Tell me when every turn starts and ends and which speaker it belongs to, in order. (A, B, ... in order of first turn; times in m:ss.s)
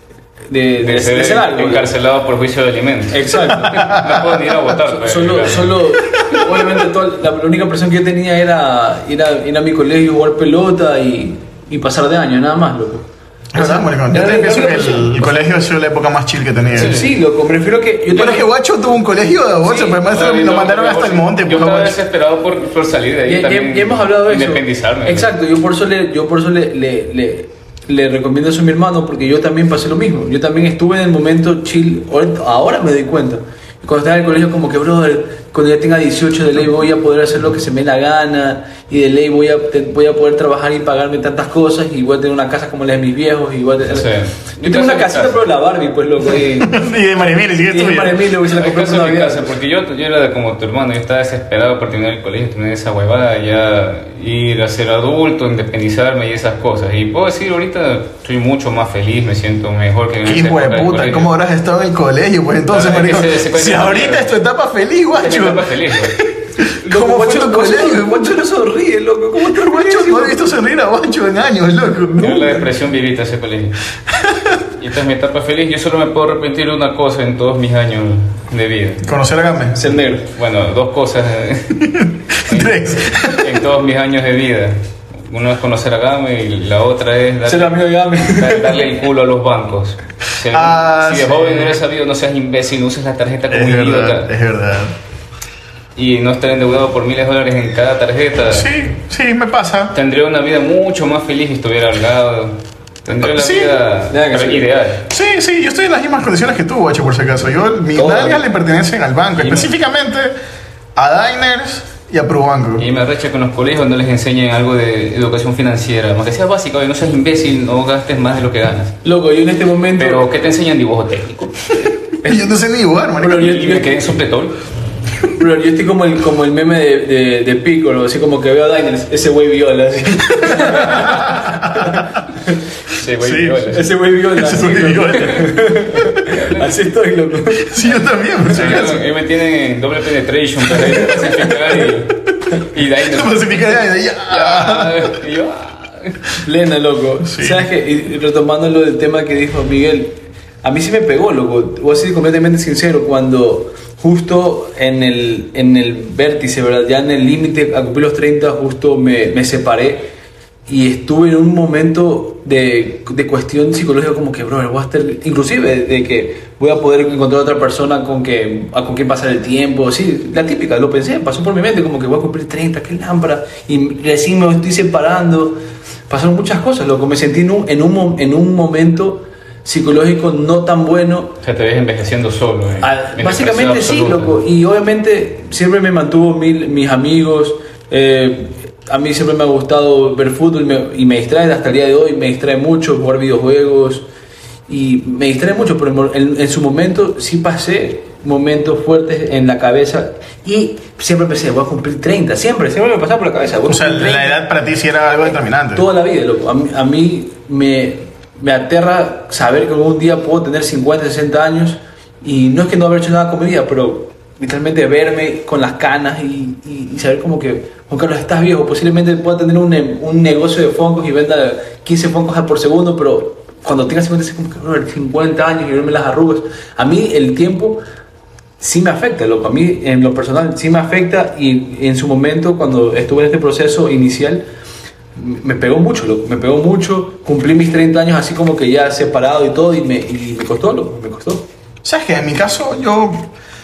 0:00.5-0:01.9 A
0:00.8-0:05.8 B
0:03.1-0:04.0 A
0:03.7-0:04.5 C
0:04.8-0:15.4 A
0:13.5-0:17.0 C
0:16.8-0:18.5 A
0:16.8-0:17.1 B
0:18.1-0:22.0 C
0:19.7-0:25.3 B
0:23.3-0:44.1 A
0:43.9-0:45.4 B
0:44.6-0:46.8 A
0:46.6-0:48.2 C
0:47.6-0:49.5 A
0:48.4-1:01.3 B
1:00.2-1:08.4 C
1:02.7-1:04.3 B
1:05.2-1:06.2 B
1:06.8-1:10.5 A
1:09.4-1:12.7 C
1:12.2-1:13.8 B
1:12.2-1:12.5 A
1:14.1-1:14.6 C
1:14.7-1:19.1 B
1:19.0-1:19.9 C
1:19.8-1:20.3 A
1:20.2-1:21.8 B
1:21.8-1:23.7 C
1:22.4-1:34.3 B
1:27.4-1:28.9 A
1:30.5-1:31.8 C
1:33.5-1:35.0 C
1:36.0-1:38.7 B
1:38.5-1:39.9 C
1:39.9-1:45.1 B
1:43.2-1:43.8 C
1:44.1-1:44.7 A
1:45.1-1:50.3 C
1:47.9-1:48.4 A
1:49.4-1:49.7 B
1:51.0-1:52.9 C
1:52.8-1:59.0 B
1:59.0-2:00.3 A
2:00.0-2:02.4 B
2:02.2-2:03.5 C
2:03.2-2:04.0 A
2:03.3-2:04.6 B
2:05.3-2:12.1 A
2:10.6-2:12.0 C
2:12.9-2:13.9 B
2:13.2-2:13.8 C
2:13.7-2:17.9 A
2:14.3-2:15.6 C
2:16.2-2:16.8 B
2:17.6-2:19.0 C
2:18.5-2:19.0 A
2:18.5-2:23.7 B
2:20.9-2:21.8 A
2:23.0-2:25.2 C
2:24.3-2:26.2 B
2:26.4-2:40.1 A
2:27.2-2:27.7 C
2:40.7-3:01.4 A
3:01.4-3:04.4 B
3:02.8-3:14.1 A
3:14.7-3:24.4 A
3:23.7-3:25.9 C
3:25.7-3:47.8 A
3:48.6-3:54.4 A
3:55.2-4:01.5 A
4:01.8-4:03.3 C